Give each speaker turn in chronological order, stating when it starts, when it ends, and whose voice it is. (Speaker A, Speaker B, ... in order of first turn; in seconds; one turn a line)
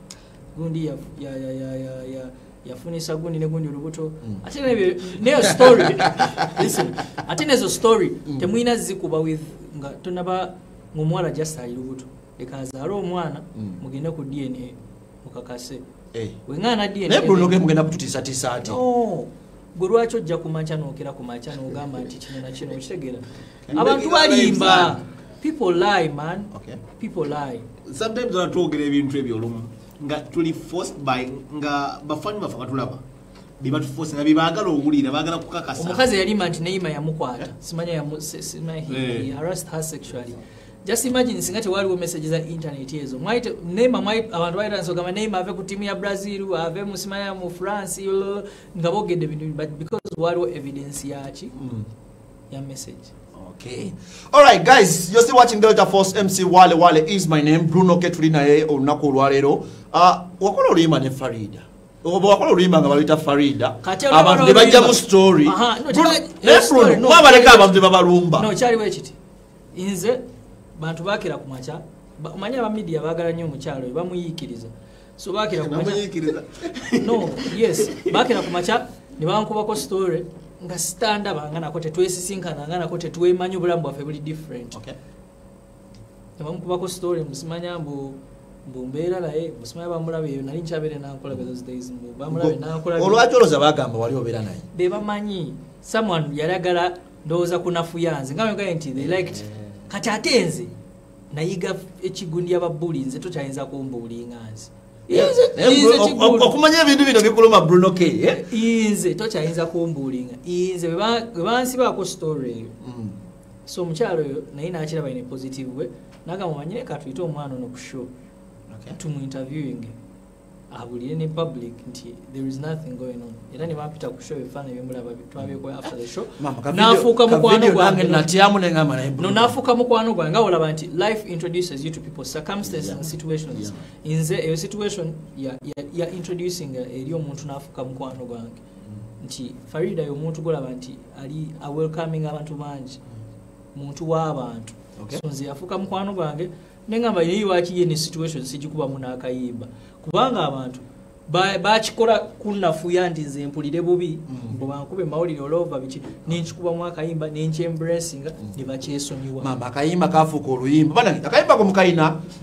Speaker A: 0.5-15.8
Speaker B: 5.4-6.8
Speaker B: 13.6-13.8
Speaker B: 16.1-16.4
Speaker A: 16.5-17.6
Speaker B: 17.1-18.8
Speaker A: 18.6-27.7
Speaker C: 23.7-25.0
Speaker B: 26.5-26.8
Speaker C: 27.8-33.0
Speaker C: 33.6-36.1
Speaker A: 35.7-51.5
Speaker C: 38.9-39.3
Speaker B: 51.5-51.9
Speaker A: 52.5-53.1
Speaker B: 53.3-68.5
Speaker A: 63.8-69.2
Speaker A: 69.7-76.1
Speaker C: 75.6-78.3
Speaker A: 76.9-84.8
Speaker A: 86.4-93.2
Speaker B: 92.3-94.7
Speaker A: 94.7-100.7
Speaker B: 99.2-99.8
Speaker A: 101.3-106.5
Speaker B: 105.1-108.5
Speaker A: 108.3-112.7
Speaker B: 112.8-113.2
Speaker A: 113.7-118.1
Speaker B: 118.7-119.0
Speaker A: 119.0-120.0
Speaker A: 120.7-128.4
Speaker B: 126.3-129.5
Speaker A: 129.2-138.6
Speaker B: 132.6-133.8
Speaker A: 139.2-143.0
Speaker A: 143.7-159.5
Speaker B: 145.0-145.2
Speaker B: 154.3-154.6
Speaker B: 159.4-162.2